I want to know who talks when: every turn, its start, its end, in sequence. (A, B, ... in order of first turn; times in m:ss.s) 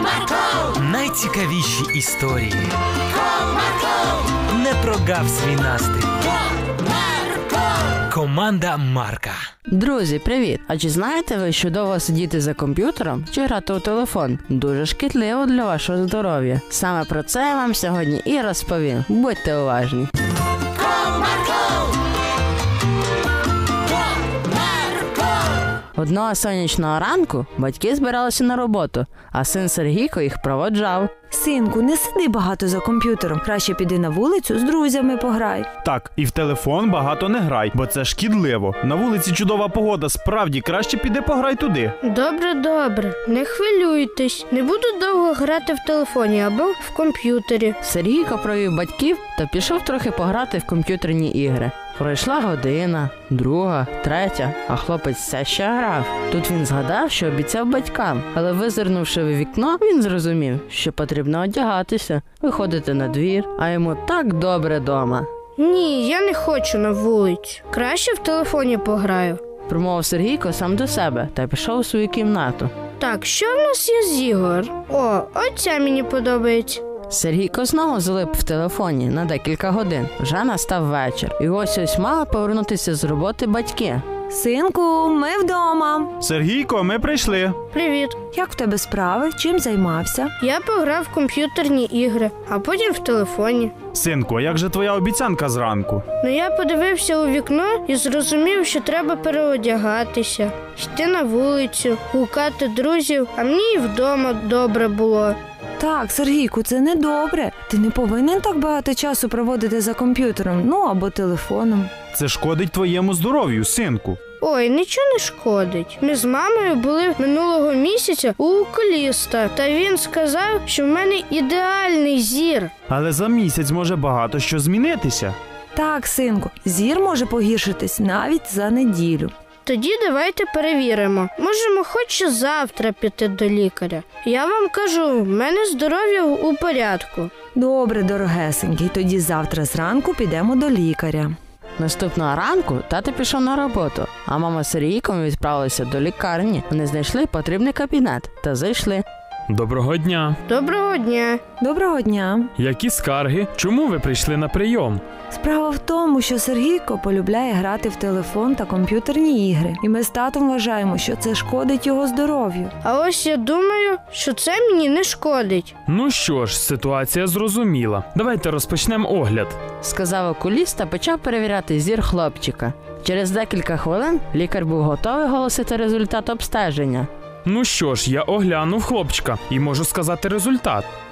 0:00.7-0:02.7 A
0:04.5-0:06.3 A
0:08.1-0:09.4 A
0:09.7-0:20.1 B
0:26.0-0:31.1 B
0:31.3-0:35.7 C
0:35.8-0:41.9 D
0:42.0-0:47.8 E
0:47.8-1:05.3 B
1:05.6-1:09.4 E
1:09.7-1:12.7 B
1:13.0-1:16.8 E
1:17.1-1:24.0 B
1:24.3-1:26.1 C
1:26.2-1:27.6 D
1:27.7-1:28.2 E
1:28.3-1:30.3 C
1:30.4-1:33.7 E
1:33.9-1:36.0 D
1:36.2-1:45.4 E
1:45.8-1:51.9 C
1:52.1-1:54.2 D
1:54.4-2:02.7 E
2:02.9-2:05.4 D
2:05.7-2:09.3 C
2:09.6-2:17.3 E
2:17.5-2:21.3 C
2:21.8-2:29.0 B
2:29.5-2:30.4 F
2:30.5-2:31.4 E
2:31.6-2:32.5 C
2:32.6-2:35.0 F
2:35.3-2:42.7 C
2:42.8-2:45.7 E
2:45.9-2:49.6 F
2:49.8-2:57.1 B
2:57.4-3:00.8 F